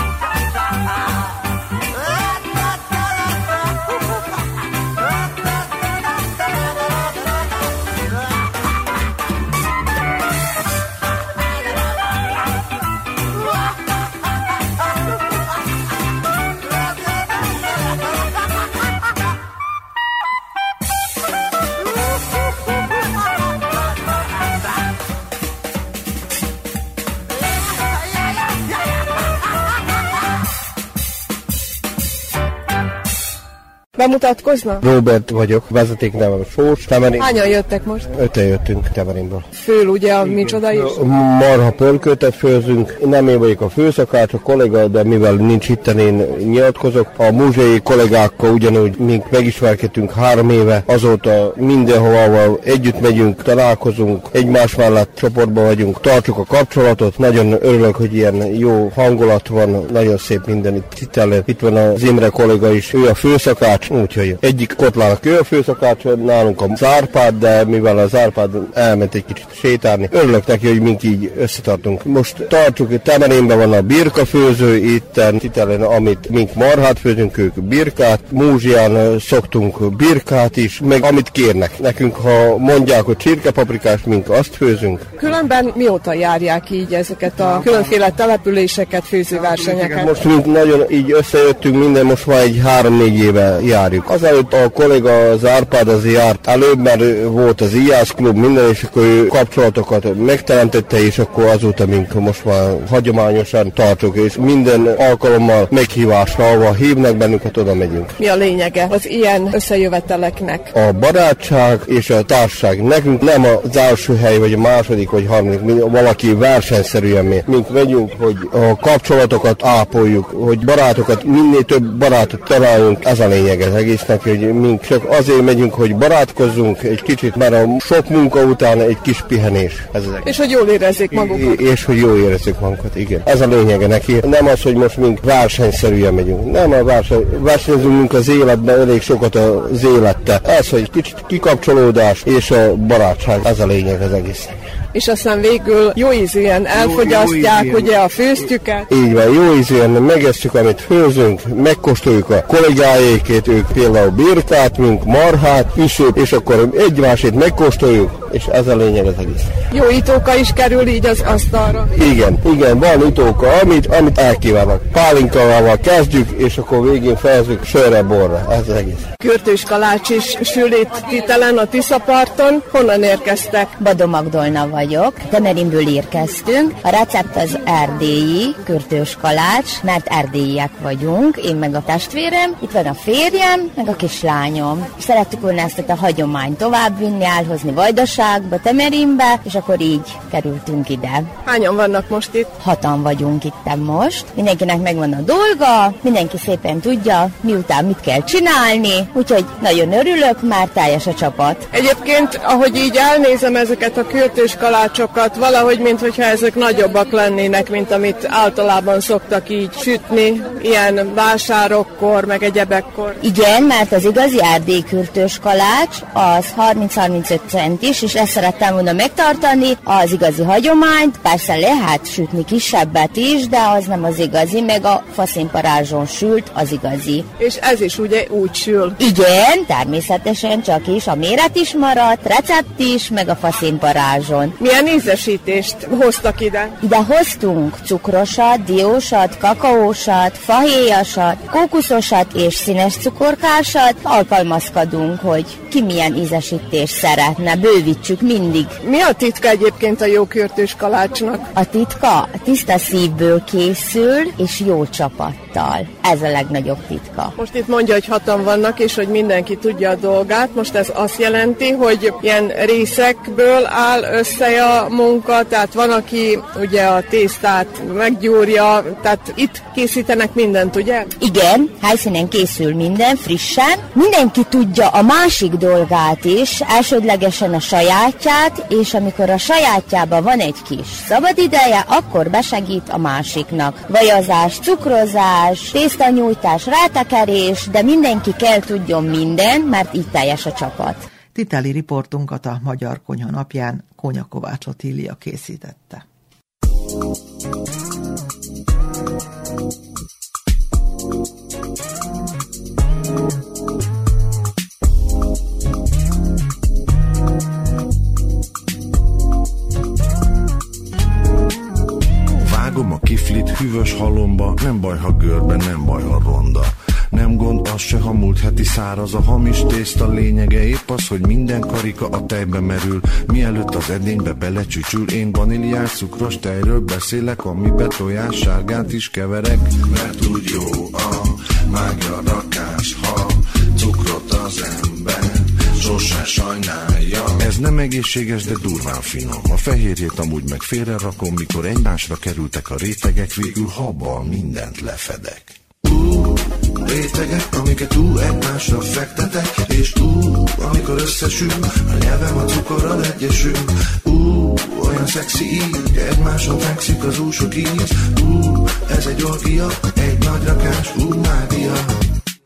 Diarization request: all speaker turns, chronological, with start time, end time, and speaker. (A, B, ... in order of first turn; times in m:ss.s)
0:34.0-0:34.8 A
0:34.8-0:37.4 B
0:37.2-0:38.1 A
0:38.1-0:39.5 B
0:39.5-0:41.0 A
0:40.2-1:25.1 B
1:25.2-1:30.2 A
1:27.4-1:27.8 B
1:29.4-1:48.2 B
1:48.2-1:50.7 A
1:50.7-2:10.4 B
2:10.2-2:11.5 A
2:11.1-2:24.6 B
2:24.9-2:28.9 A
2:26.8-2:27.9 B
2:28.9-2:39.5 B
2:39.7-2:41.9 A
2:41.9-2:49.1 B
2:49.2-2:53.7 A
2:53.8-3:11.3 C
3:11.5-3:12.5 A
3:12.6-3:21.6 C
3:21.7-3:33.2 A
3:33.2-3:47.3 C
3:47.4-3:49.0 A
3:49.0-3:54.6 C
3:54.6-3:56.8 A
3:56.8-4:08.8 C
4:08.8-4:11.5 A
4:11.6-4:17.3 C
4:17.4-4:31.1 A
4:31.2-4:51.0 C
4:51.3-4:56.0 D
5:12.4-6:01.9 E